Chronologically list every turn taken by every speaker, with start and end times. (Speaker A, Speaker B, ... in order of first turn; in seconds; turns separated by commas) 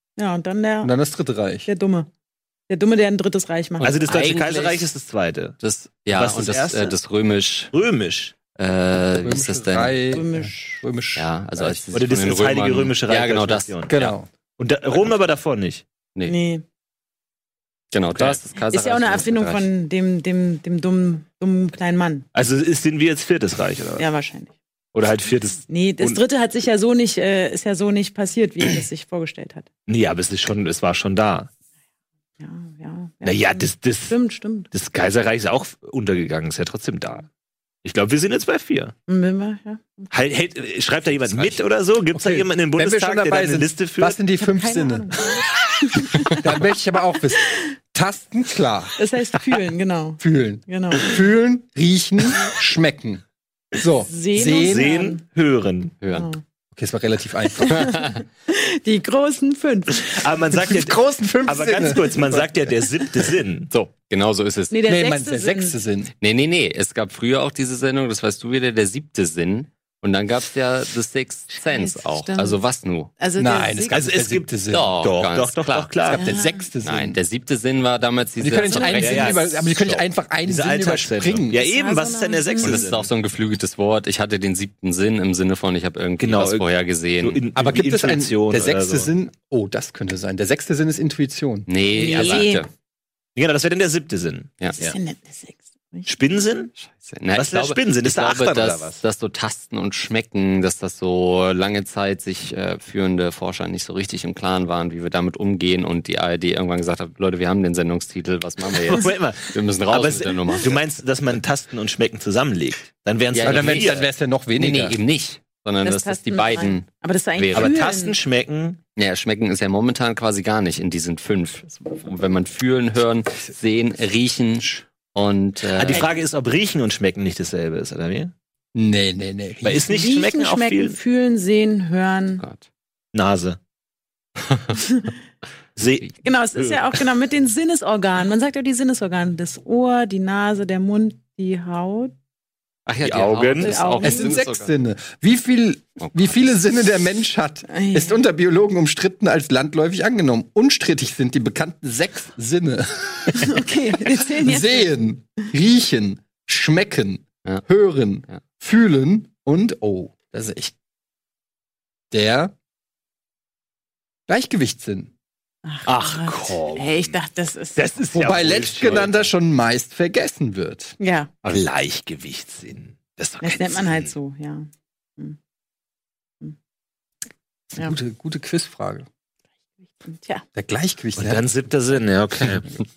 Speaker A: 0.2-0.9, Speaker B: 0.8-1.7, Speaker A: 1.7-2.1, Speaker A: 2.7-4.0, Speaker C: 3.8-5.6, Speaker D: 3.8-4.8, Speaker D: 5.6-7.7, Speaker C: 6.1-7.0, Speaker C: 7.7-8.3, Speaker D: 8.6-10.0, Speaker B: 9.2-12.0, Speaker A: 10.1-10.8, Speaker D: 11.2-14.2, Speaker C: 11.9-14.1, Speaker B: 13.9-14.3, Speaker C: 14.6-15.8, Speaker A: 16.3-16.6, Speaker D: 17.9-19.6, Speaker C: 18.1-18.4, Speaker A: 18.7-22.2, Speaker C: 22.3-24.1, Speaker A: 24.0-24.5, Speaker C: 24.9-26.2, Speaker A: 25.7-29.7, Speaker C: 29.9-31.5, Speaker A: 32.4-34.7, Speaker C: 33.2-34.2, Speaker C: 34.7-37.3, Speaker C: 37.8-38.9, Speaker A: 39.1-40.1, Speaker C: 40.1-44.2, Speaker B: 42.1-45.1, Speaker A: 44.4-46.4, Speaker B: 46.2-49.0, Speaker A: 49.0-51.2, Speaker B: 50.2-53.2, Speaker B: 53.7-54.9, Speaker A: 54.1-55.2, Speaker C: 54.5-56.0, Speaker D: 56.0-56.3, Speaker A: 56.1-56.4, Speaker B: 56.7-58.0, Speaker A: 57.6-60.1, Speaker C: 60.0-63.7, Speaker B: 60.6-62.7, Speaker D: 63.7-64.8, Speaker A: 64.7-65.8, Speaker B: 64.9-66.1, Speaker D: 66.2-73.1, Speaker A: 71.5-72.6, Speaker A: 73.2-74.0, Speaker B: 73.4-75.0, Speaker C: 73.9-76.3, Speaker D: 74.7-75.9, Speaker B: 76.1-77.2, Speaker A: 76.2-76.7, Speaker D: 76.8-80.0, Speaker B: 78.4-81.6, Speaker A: 78.7-79.3, Speaker C: 78.8-79.5, Speaker C: 80.5-83.1, Speaker A: 81.5-82.9, Speaker D: 82.6-87.4, Speaker C: 86.2-86.7, Speaker C: 87.2-89.1, Speaker B: 87.5-91.7, Speaker D: 91.7-92.7, Speaker A: 91.9-92.7, Speaker C: 92.0-92.5, Speaker C: 93.4-95.0, Speaker A: 94.8-96.1, Speaker C: 96.1-96.7, Speaker D: 96.8-110.8, Speaker C: 97.3-99.0, Speaker C: 108.8-114.1, Speaker D: 113.3-114.1, Speaker B: 113.4-115.0, Speaker D: 114.6-117.7, Speaker A: 115.8-118.2, Speaker C: 117.5-118.8, Speaker D: 119.0-126.1, Speaker C: 125.7-128.3, Speaker B: 128.8-130.0, Speaker C: 129.6-131.0, Speaker A: 129.9-132.4, Speaker C: 133.1-133.6, Speaker A: 134.8-135.1, Speaker C: 135.8-136.9, Speaker A: 136.2-142.1, Speaker D: 142.9-144.7, Speaker C: 143.0-143.8, Speaker A: 143.6-144.4, Speaker B: 144.0-160.7, Speaker A: 147.7-148.2, Speaker A: 153.3-154.9, Speaker B: 162.1-162.5, Speaker B: 164.3-165.1, Speaker A: 165.7-167.8, Speaker C: 165.9-167.2, Speaker C: 167.8-169.3, Speaker B: 168.1-171.0, Speaker A: 171.0-171.3, Speaker C: 171.4-174.1, Speaker A: 173.4-175.4, Speaker B: 177.7-179.1, Speaker A: 180.0-180.4, Speaker B: 180.6-181.4, Speaker C: 181.2-182.7